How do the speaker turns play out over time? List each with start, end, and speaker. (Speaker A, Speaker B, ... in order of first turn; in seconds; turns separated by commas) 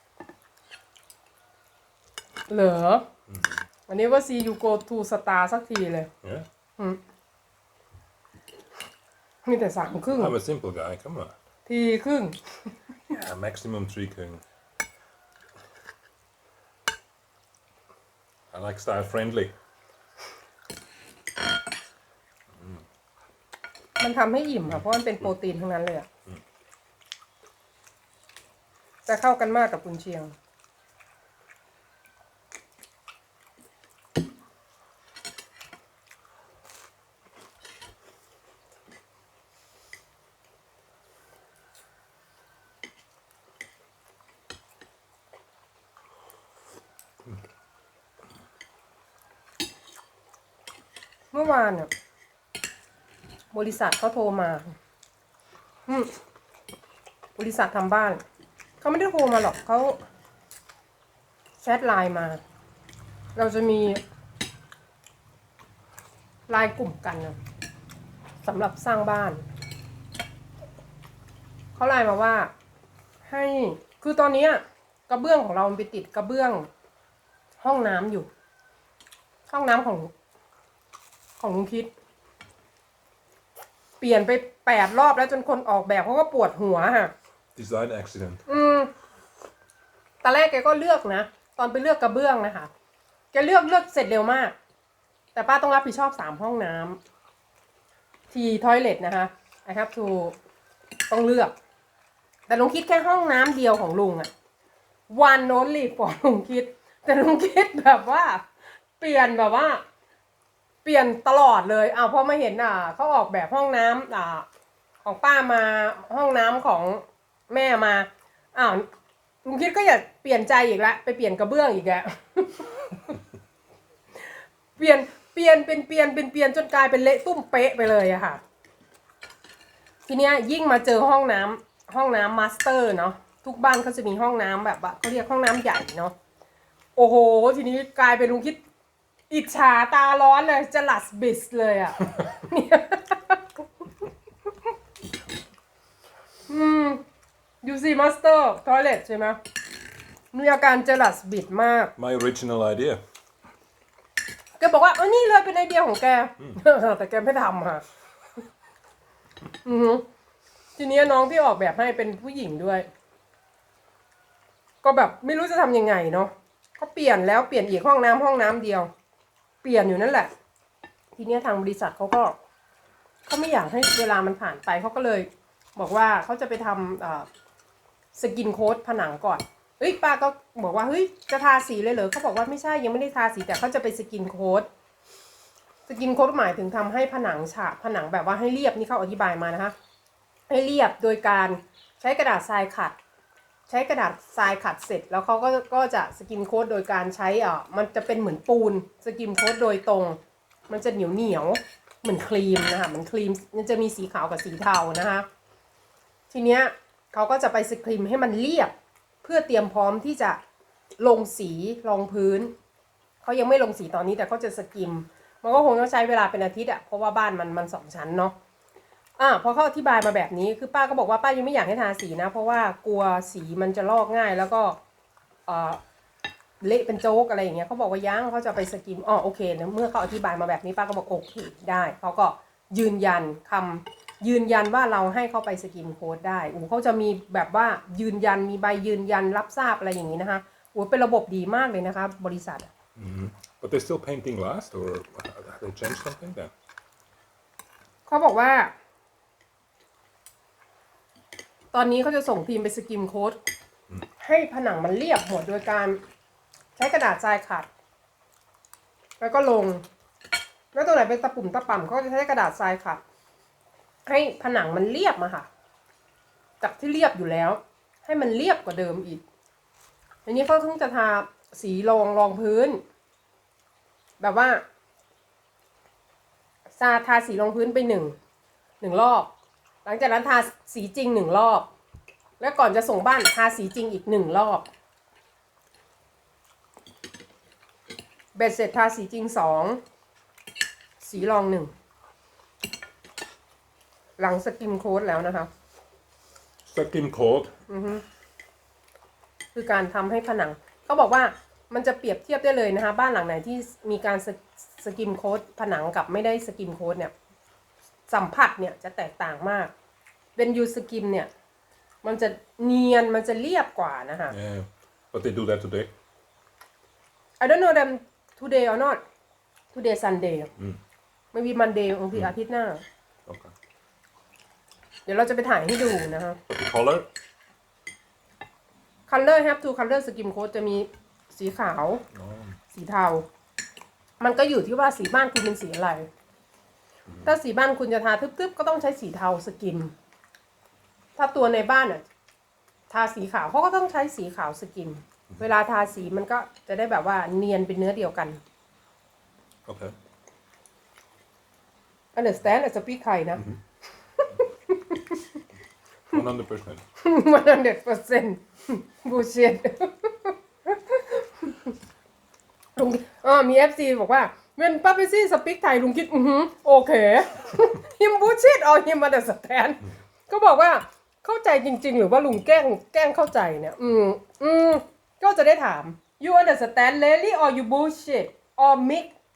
Speaker A: 2.5-3.1, Speaker B: 3.3-3.6, Speaker A: 3.9-6.1, Speaker B: 6.2-6.5, Speaker A: 9.4-10.3, Speaker B: 10.1-11.4, Speaker A: 11.7-12.7, Speaker B: 13.1-14.4, Speaker B: 18.5-19.5, Speaker B: 22.5-22.8, Speaker A: 24.0-26.1, Speaker A: 29.1-30.3, Speaker A: 51.3-51.9, Speaker A: 53.5-54.8, Speaker A: 55.9-56.1, Speaker A: 57.4-58.2, Speaker A: 58.8-60.0, Speaker A: 61.6-62.4, Speaker A: 63.4-64.0, Speaker A: 66.5-67.4, Speaker A: 68.4-69.4, Speaker A: 71.8-72.5, Speaker A: 73.3-76.7, Speaker A: 77.6-78.3, Speaker A: 79.5-80.1, Speaker A: 81.4-81.9, Speaker A: 84.0-87.1, Speaker B: 87.5-88.4, Speaker A: 88.5-88.9, Speaker A: 90.2-92.7, Speaker A: 93.3-94.5, Speaker A: 95.3-97.0, Speaker A: 98.3-100.3, Speaker A: 101.1-101.5, Speaker A: 102.5-104.3, Speaker A: 105.1-108.5, Speaker A: 109.0-109.8, Speaker A: 110.8-114.5, Speaker A: 115.0-118.9, Speaker A: 119.4-123.2, Speaker A: 124.8-128.4, Speaker A: 130.1-136.1, Speaker A: 136.9-138.6, Speaker A: 139.3-143.6, Speaker A: 146.5-147.0, Speaker A: 147.6-149.4, Speaker A: 150.3-151.9, Speaker B: 152.0-153.0, Speaker A: 154.6-157.8, Speaker A: 159.6-160.0, Speaker A: 160.8-162.9, Speaker A: 164.8-168.9, Speaker A: 169.6-170.3, Speaker A: 171.2-172.4, Speaker A: 173.3-177.3, Speaker A: 178.1-184.7, Speaker A: 185.9-189.7, Speaker A: 190.5-192.9, Speaker A: 193.7-205.3, Speaker A: 206.3-210.4, Speaker A: 211.0-212.5, Speaker A: 213.2-218.3, Speaker A: 219.2-224.8, Speaker A: 225.5-225.8, Speaker A: 226.6-242.7, Speaker B: 242.9-246.5, Speaker A: 248.1-248.7, Speaker A: 251.7-253.4, Speaker A: 254.2-256.0, Speaker A: 256.8-257.7, Speaker A: 259.2-259.8, Speaker A: 260.7-263.0, Speaker A: 264.1-265.5, Speaker A: 266.6-269.2, Speaker A: 270.2-272.8, Speaker A: 274.2-274.6, Speaker A: 276.8-278.1, Speaker A: 278.8-279.3, Speaker A: 279.8-281.7, Speaker A: 282.4-284.6, Speaker A: 288.3-289.8, Speaker A: 291.0-291.7, Speaker A: 294.2-295.5, Speaker B: 296.7-297.5, Speaker A: 297.7-298.0, Speaker A: 299.5-307.1, Speaker A: 308.1-309.7, Speaker A: 310.4-311.3, Speaker A: 312.0-314.4, Speaker B: 314.3-315.9, Speaker A: 317.4-319.0, Speaker A: 319.7-320.5, Speaker A: 321.3-322.8, Speaker B: 323.2-323.5, Speaker A: 325.1-326.4, Speaker B: 326.5-327.1, Speaker A: 329.1-332.0, Speaker B: 332.1-332.6, Speaker A: 332.7-333.2, Speaker A: 334.2-336.1, Speaker A: 337.2-339.9, Speaker A: 341.2-342.0, Speaker A: 342.9-348.4, Speaker B: 349.6-349.9, Speaker A: 352.1-353.4, Speaker A: 354.2-355.4, Speaker B: 356.1-356.8, Speaker A: 357.0-361.7, Speaker A: 362.8-379.1